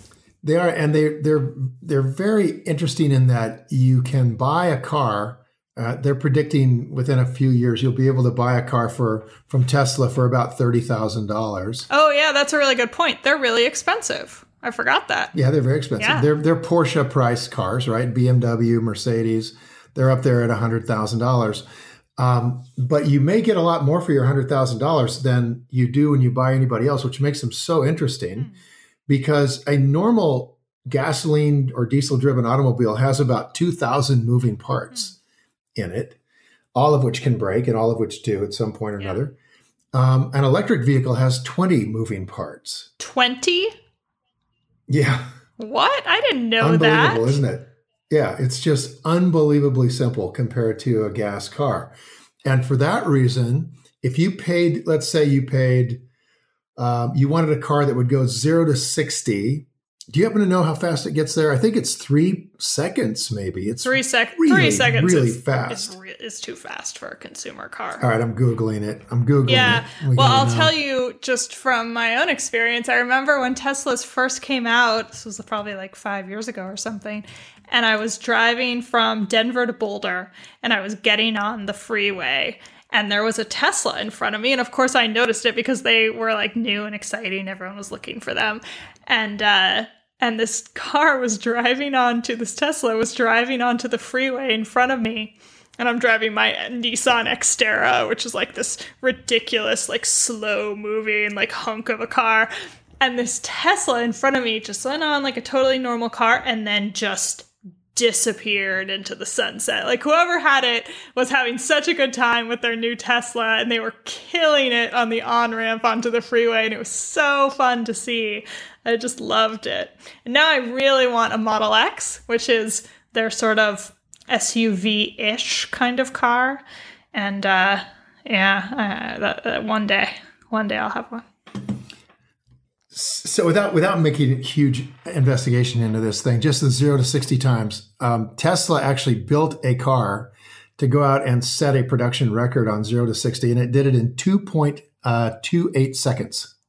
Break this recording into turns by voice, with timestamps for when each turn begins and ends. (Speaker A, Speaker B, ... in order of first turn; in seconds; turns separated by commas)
Speaker A: 0.4-11.9, Speaker B: 11.9-15.3, Speaker A: 15.3-21.6, Speaker B: 16.0-16.3, Speaker A: 22.2-28.5, Speaker A: 29.1-35.2, Speaker A: 35.7-36.2, Speaker A: 36.7-39.4, Speaker A: 39.9-42.9, Speaker B: 43.0-43.7, Speaker A: 44.9-45.3, Speaker B: 45.6-47.4, Speaker A: 46.6-51.9, Speaker A: 52.4-56.0, Speaker A: 56.8-66.0, Speaker B: 63.8-68.0, Speaker A: 68.0-70.7, Speaker B: 69.5-102.5, Speaker B: 103.0-126.6, Speaker B: 127.1-131.3, Speaker A: 132.9-146.5